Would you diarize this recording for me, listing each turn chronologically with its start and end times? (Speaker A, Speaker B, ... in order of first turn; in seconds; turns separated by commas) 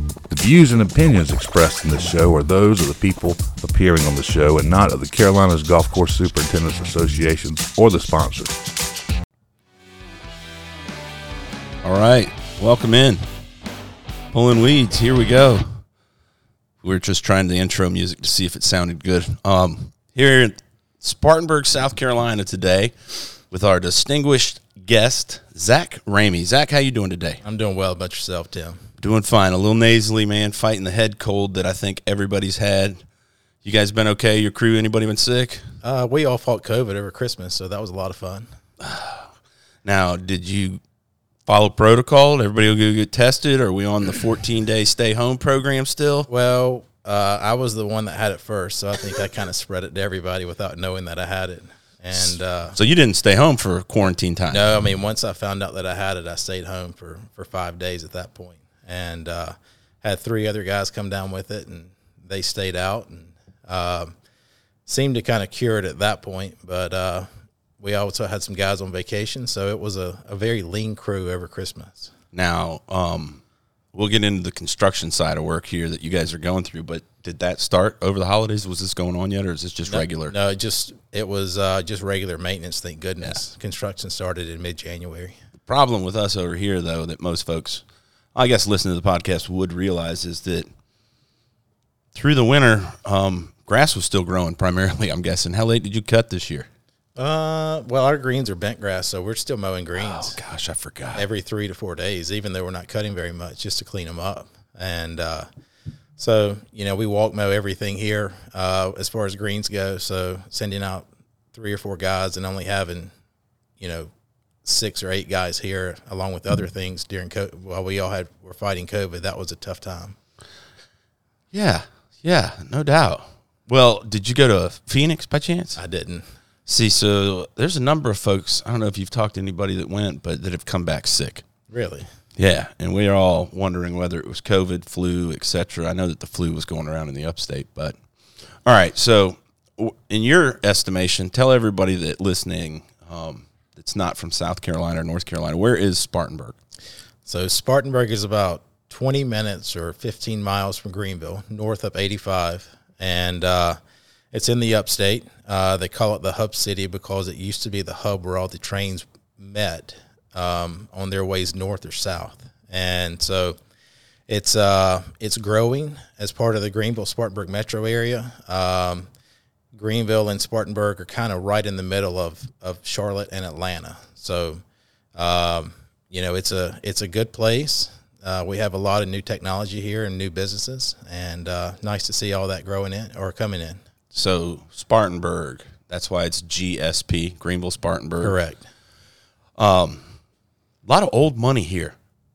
Speaker A: 0.3-8.6, Speaker B: 11.8-13.2, Speaker B: 14.3-15.8, Speaker B: 16.8-27.4, Speaker C: 27.4-28.8, Speaker B: 29.0-33.0, Speaker B: 33.6-35.6, Speaker C: 35.8-38.5, Speaker B: 38.8-39.3, Speaker B: 39.8-40.8, Speaker B: 41.5-46.3, Speaker C: 46.3-52.8, Speaker B: 52.1-54.7, Speaker C: 54.5-64.1, Speaker C: 64.8-67.3, Speaker C: 67.8-72.1, Speaker B: 72.3-73.4, Speaker B: 73.9-80.3, Speaker C: 79.8-85.3, Speaker B: 85.7-87.8, Speaker B: 88.3-90.7, Speaker B: 92.1-96.7, Speaker C: 97.2-100.4, Speaker B: 100.0-101.2, Speaker C: 101.1-105.5, Speaker C: 106.2-113.1, Speaker C: 113.8-114.1, Speaker C: 114.6-120.2, Speaker B: 121.5-125.8, Speaker C: 125.8-126.2, Speaker B: 126.7-131.4, Speaker C: 131.7-132.1, Speaker B: 132.4-137.9, Speaker B: 138.6-146.5, Speaker C: 147.2-153.8, Speaker C: 154.3-163.6, Speaker C: 164.3-169.1, Speaker C: 169.7-174.6, Speaker C: 175.2-183.8, Speaker B: 184.1-188.3, Speaker C: 188.2-188.6, Speaker B: 189.6-190.0, Speaker B: 190.8-191.9